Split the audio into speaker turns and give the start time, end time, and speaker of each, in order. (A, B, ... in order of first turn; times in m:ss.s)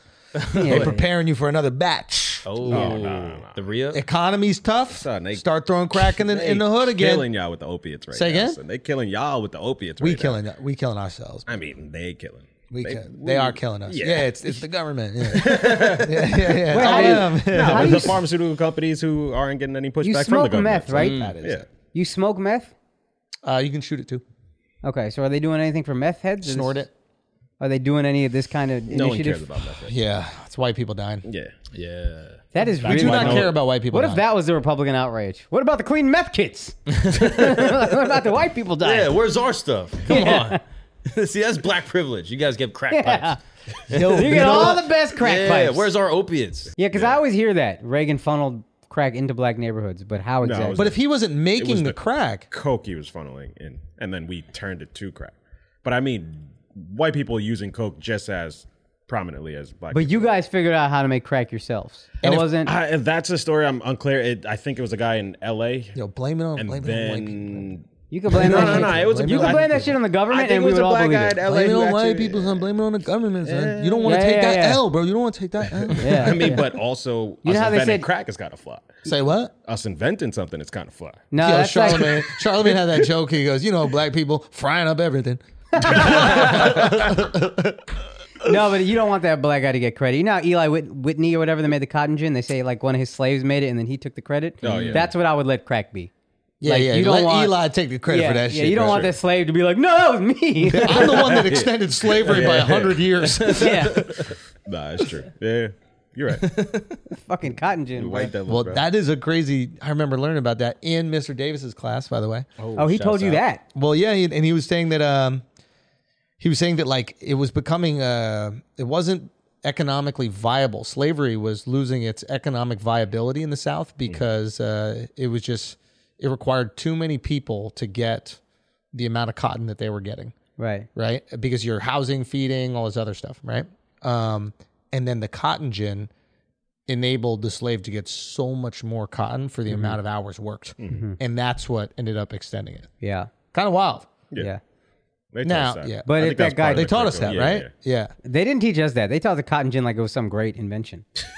0:00.4-0:01.0 A
0:00.6-0:01.1 B
0:00.6-0:02.9 C
0:02.5-0:04.0 A
0:02.7-0:03.6 D
0:03.9-0:07.3 C
0:04.9-0:10.4 D
0:08.1-0:08.6 C
0:10.0-0:11.5 C
0:11.5-0:14.6 D
0:12.7-0:18.2 C
0:15.3-0:21.7 D
0:15.4-0:16.1 A
0:16.7-0:18.2 B
0:20.0-0:21.4 B
0:21.0-0:21.4 A
0:21.0-0:21.6 C
0:21.9-0:22.7 B
0:23.4-0:24.2 C
0:24.8-0:26.9 B
0:26.4-0:26.9 C
0:27.6-0:29.5 B
0:28.9-0:30.0 D
0:29.9-0:31.2 C
0:31.2-0:31.5 D
0:31.7-0:33.5 A
0:32.5-0:39.2 B
0:32.8-0:34.2 C
0:36.9-0:37.8 A
0:38.8-0:43.4 A
0:40.1-0:40.6 B
0:42.9-0:43.4 B
0:43.9-0:44.8 C
0:43.9-0:46.8 A
0:44.0-0:45.9 B
0:46.8-0:50.9 B
0:50.4-1:00.3 D
0:50.8-0:52.5 C
0:59.9-1:02.7 B
1:02.4-1:06.0 D
1:06.0-1:07.7 C
1:06.6-1:12.7 D
1:08.1-1:11.4 B
1:08.3-1:09.9 C
1:11.4-1:16.1 C
1:13.4-1:14.2 D
1:14.0-1:14.8 B
1:15.9-1:19.0 D
1:16.0-1:16.7 B
1:17.4-1:18.1 B
1:19.0-1:19.5 C
1:19.6-1:21.2 D
1:21.3-1:22.3 B
1:21.4-1:27.8 C
1:25.8-1:26.5 B
1:28.4-1:36.1 B
1:34.6-1:35.1 A
1:34.6-1:35.1 D
1:36.6-1:39.1 C
1:36.6-1:41.3 B
1:38.8-1:39.1 D
1:40.7-1:44.0 C
1:41.0-1:43.1 D
1:42.2-1:44.4 A
1:43.6-1:44.0 B
1:44.6-1:46.5 D
1:46.4-1:47.0 A
1:47.1-1:48.4 B
1:48.0-1:48.8 D
1:48.5-1:52.5 C
1:52.6-1:53.4 A
1:52.8-1:53.6 B
1:53.7-1:55.4 C
1:56.4-2:08.4 C
2:08.9-2:10.4 C
2:10.6-2:10.9 B
2:11.0-2:16.1 C
2:16.9-2:22.9 C
2:19.7-2:20.0 B
2:20.8-2:21.0 D
2:20.9-2:21.2 B
2:23.0-2:23.3 B
2:23.5-2:24.1 C
2:25.3-2:27.7 D
2:25.4-2:28.1 C
2:26.1-2:27.1 B
2:28.2-2:31.0 B